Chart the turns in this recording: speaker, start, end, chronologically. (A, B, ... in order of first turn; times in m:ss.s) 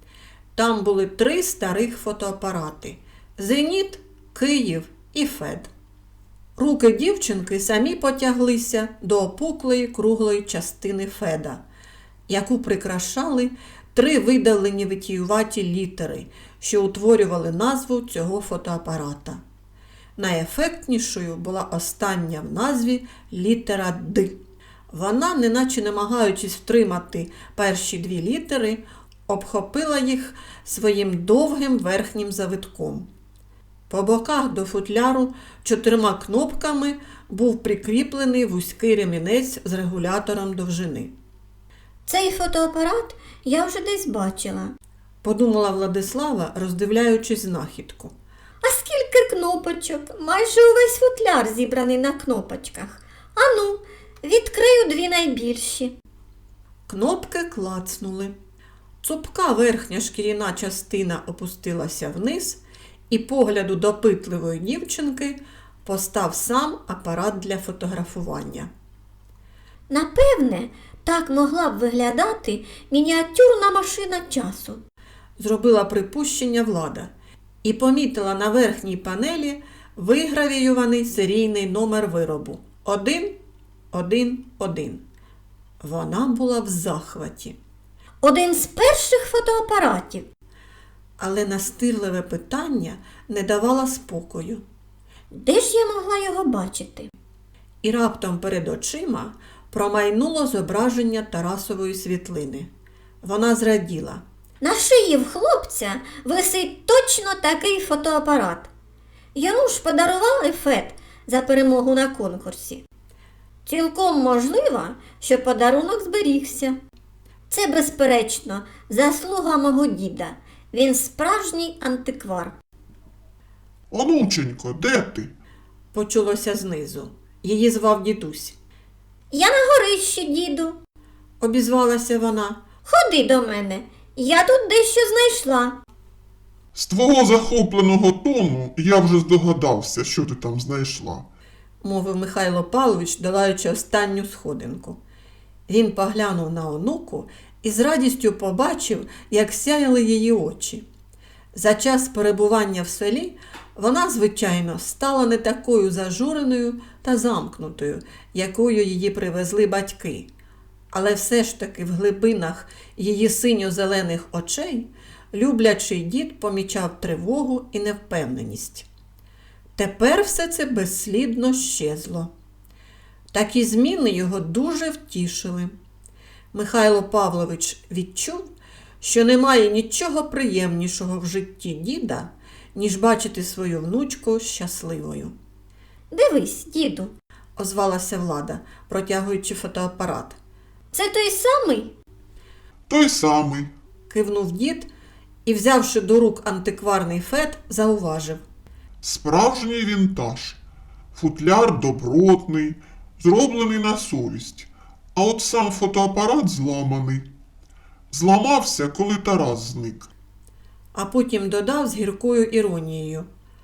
0:00.5-0:05.7 A
0:06.6-0:11.6 A
0:12.3-0:19.4 A
0:20.2-0:24.4 A
0:24.9-0:33.1 A
0:33.9-0:41.1 A
0:42.1-0:44.7 B
0:45.2-0:48.1 A
0:48.6-0:55.9 B
0:56.9-0:58.3 A
0:59.0-1:08.7 A
1:09.9-1:14.8 B
1:15.4-1:17.1 A
1:17.6-1:23.4 A
1:23.9-1:25.0 A
1:25.8-1:27.6 A
1:28.2-1:30.3 B
1:31.2-1:34.6 A
1:35.3-1:37.1 B
1:37.8-1:42.7 A
1:43.2-1:44.2 A
1:44.6-1:48.7 B
1:49.3-1:52.8 B
1:53.6-1:56.8 B
1:57.5-2:02.6 B
2:03.9-2:05.3 C
2:05.9-2:08.6 A
2:09.3-2:10.8 B
2:11.4-2:12.6 A
2:12.8-2:15.8 B
2:16.7-2:21.2 C
2:21.8-2:25.0 A
2:25.7-2:30.8 A
2:31.5-2:40.3 A
2:40.9-2:48.9 A
2:49.8-2:52.3 A
2:53.3-2:55.7 A
2:56.5-2:58.5 A
2:59.0-3:05.3 A
3:06.1-3:07.1 B
3:07.6-3:10.4 A
3:10.9-3:11.9 B
3:12.9-3:13.7 C
3:14.1-3:14.9 A
3:15.4-3:18.4 A
3:19.0-3:20.6 C
3:21.1-3:27.3 C
3:28.1-3:30.1 C
3:30.9-3:33.3 A